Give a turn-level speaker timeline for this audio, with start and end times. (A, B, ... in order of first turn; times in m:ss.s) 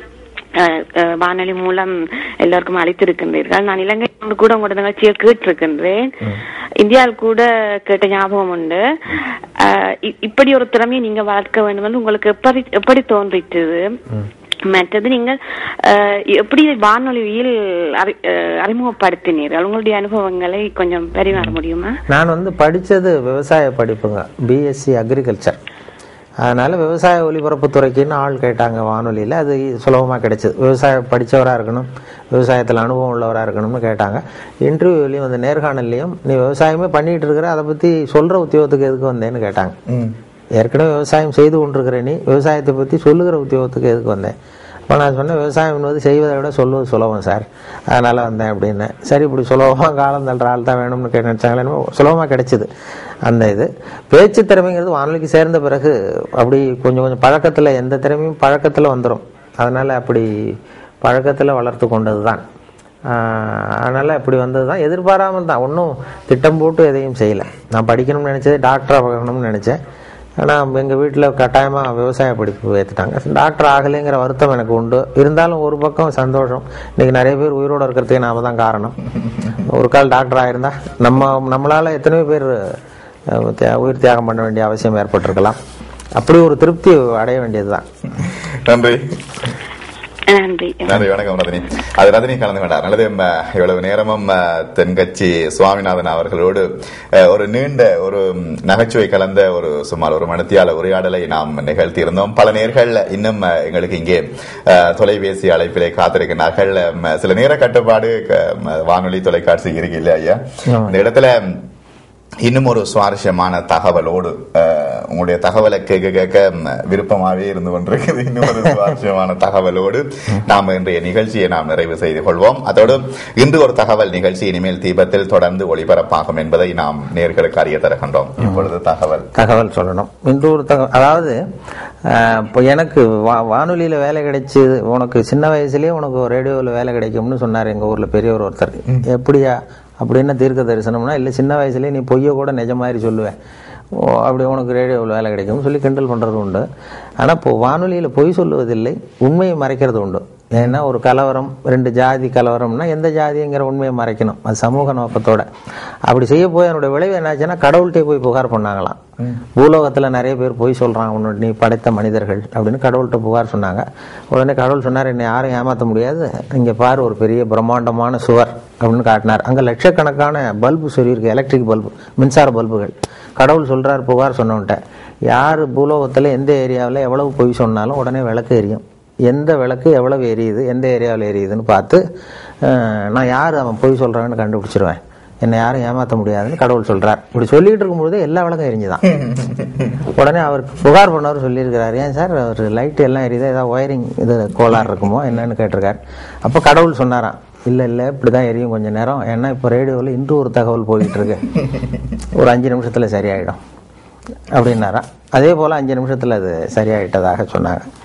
0:00.6-0:13.9 A
0:14.7-0:22.0 A
0:22.1-0:25.6 B
0:26.4-0:39.8 B
0:39.9-0:40.2 C
0:40.6-0:44.4 B
0:44.9-0:52.7 B
0:53.2-1:02.4 B
1:03.1-1:09.8 B
1:10.4-1:19.0 B
1:19.6-1:22.8 B
1:23.3-1:25.6 B
1:26.1-1:27.9 B
1:28.2-1:29.2 C
1:30.3-1:31.1 A
1:30.8-1:51.7 C
1:50.7-1:51.0 B
1:52.4-2:09.3 C
2:09.3-2:11.4 B
2:12.0-2:23.4 B
2:23.9-2:26.7 B
2:27.2-2:35.5 B
2:36.1-2:39.0 B
2:39.6-3:02.0 B
3:02.6-3:09.0 B
3:09.1-3:09.9 C
3:10.0-3:21.5 B
3:22.3-3:23.6 B
3:24.5-3:27.9 B